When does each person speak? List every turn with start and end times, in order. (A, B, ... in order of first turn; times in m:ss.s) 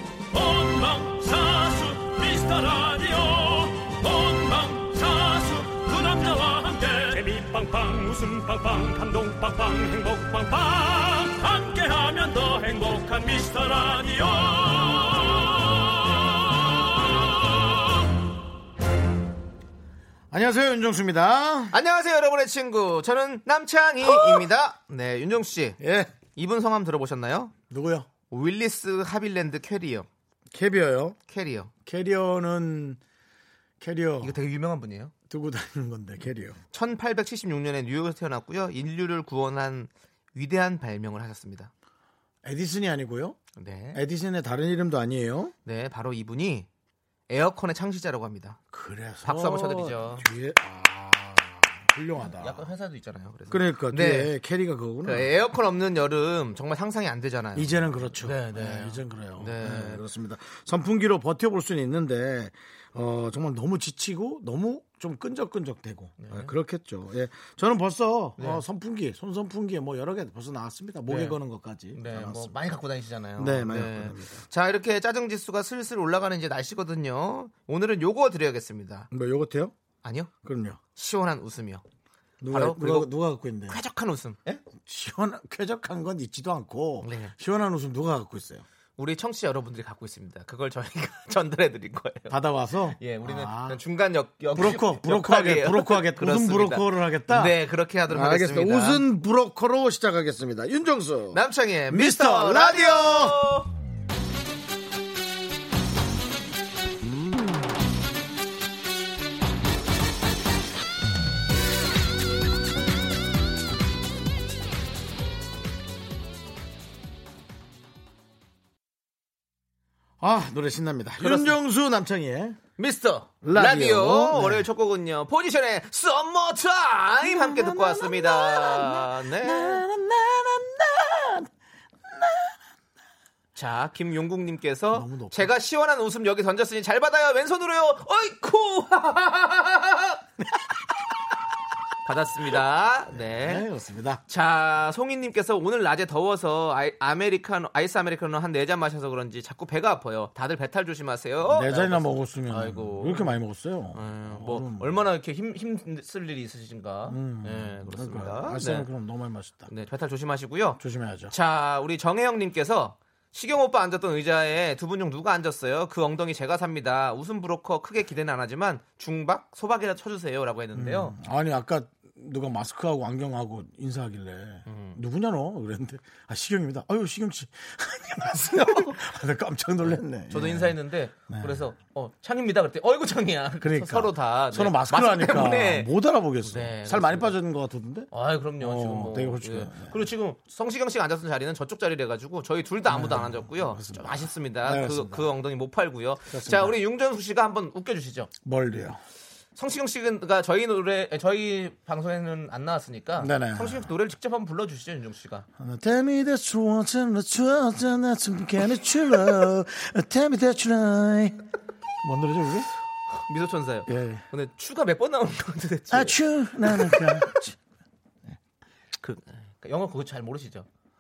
0:00.3-0:17.8 A
0:20.3-0:21.8 B
0:21.7-0:25.8 C
0:24.0-0:24.5 B
0:25.8-0:26.1 B
0:26.4-0:27.5 C
0:27.7-0:28.1 B
0:28.3-0:30.1 C
0:30.5-0:31.2 B
0:31.3-0:31.7 C
0:31.9-0:33.0 B
0:33.8-0:34.4 B
0:34.2-0:35.1 C
0:35.3-0:36.6 B
0:36.7-0:41.7 C
0:42.4-0:43.4 B
0:43.6-0:44.0 C
0:43.9-0:45.5 B
0:45.6-0:46.7 C
0:47.3-0:48.6 C
0:48.7-0:52.7 B
0:49.2-0:50.3 C
0:52.2-0:54.3 C
0:53.5-0:55.3 B
0:55.0-1:00.0 C
0:57.6-1:12.6 B
1:06.2-1:06.5 C
1:08.4-1:08.6 C
1:11.1-1:11.4 C
1:11.9-1:19.1 C
1:13.4-1:14.4 B
1:19.1-1:19.7 B
1:20.0-1:20.3 C
1:20.4-1:20.8 B
1:21.0-1:21.8 C
1:22.4-1:23.8 B
1:22.5-1:23.1 C
1:23.7-1:24.6 C
1:24.7-1:28.6 B
1:27.0-1:27.3 C
1:29.0-1:32.3 C
1:32.3-1:33.8 B
1:33.0-1:39.0 C
1:34.6-1:37.6 B
1:38.1-1:43.4 B
1:41.3-1:43.7 C
1:47.0-1:47.4 B
2:00.2-2:02.6 B
2:01.2-2:01.6 C
2:02.8-2:09.8 C
2:03.4-2:04.7 B
2:07.2-2:11.5 B
2:12.1-2:12.5 B
2:13.6-2:20.2 C
2:14.9-2:15.5 B
2:20.4-2:20.8 B
2:22.0-2:23.7 C
2:23.1-2:24.2 B
2:24.3-2:33.4 C
2:31.5-2:35.0 B
2:33.9-2:38.9 C
2:37.1-2:39.7 B
2:39.7-2:51.2 C
2:40.8-2:41.3 B
2:50.7-3:00.8 B
2:54.7-2:55.0 C
3:00.3-3:05.9 C
3:01.3-3:01.6 B
3:03.6-3:10.0 B
3:06.4-3:07.3 C
3:08.1-3:18.3 C
3:12.9-3:15.3 B
3:16.3-3:16.8 B
3:18.4-3:19.0 B
3:19.6-3:25.5 C
3:23.2-3:23.9 B
3:25.6-3:31.5 B
3:32.0-3:32.7 B
3:33.2-3:37.4 C
3:33.9-3:34.2 B
3:35.9-3:37.6 B
3:39.0-3:40.7 C